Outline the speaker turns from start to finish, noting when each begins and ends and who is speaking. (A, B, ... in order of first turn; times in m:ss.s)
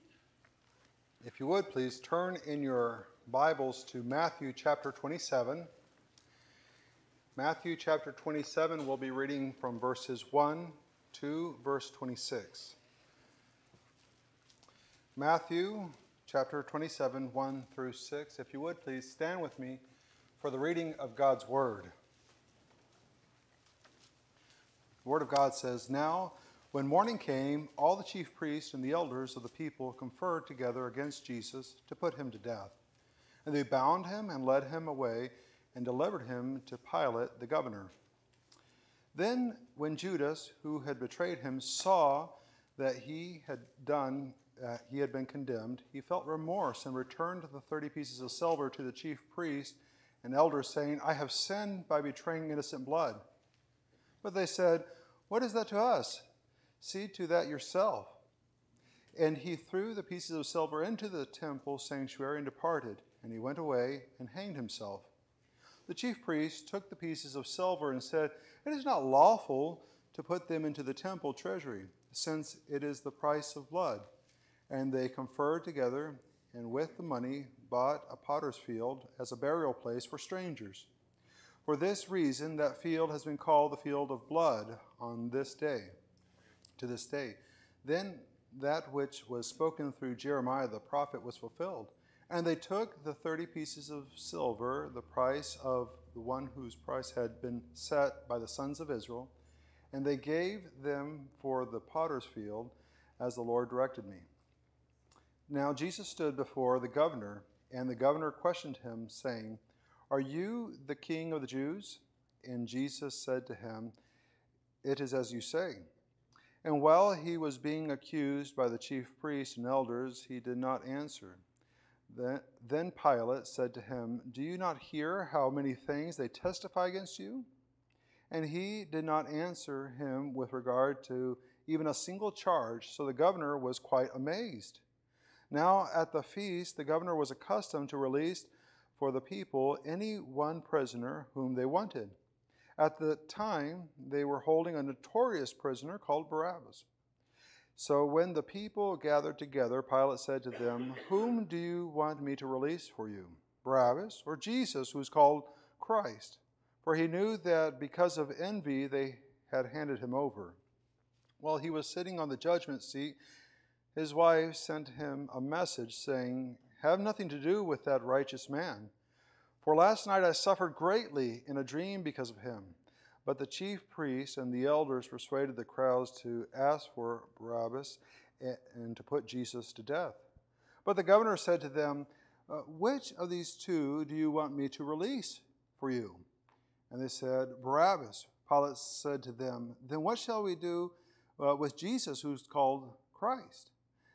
0:01.2-0:05.7 A
0:07.4-0:12.8 A
0:15.2-0:19.8 A
0:20.4-0:21.9 A
0:25.0-0:32.8 A
0:33.4-0:37.9 A
0:39.1-0:53.2 A
0:54.2-0:56.2 A
0:56.8-0:58.2 A
0:59.2-1:05.1 A
1:05.9-1:14.0 A
1:14.7-1:20.9 A
1:21.6-1:25.9 A
1:26.8-1:39.3 A
1:39.9-1:44.2 A
1:45.5-1:53.9 A
1:54.8-1:55.8 A
1:56.6-2:01.4 A
2:02.1-2:07.4 A
2:08.3-2:14.8 A
2:15.5-2:22.2 A
2:22.8-2:26.8 A
2:27.8-2:40.6 A
2:41.4-2:43.2 A
2:43.9-2:48.9 A
2:49.6-3:00.2 A
3:00.8-3:06.2 A
3:06.9-3:13.7 A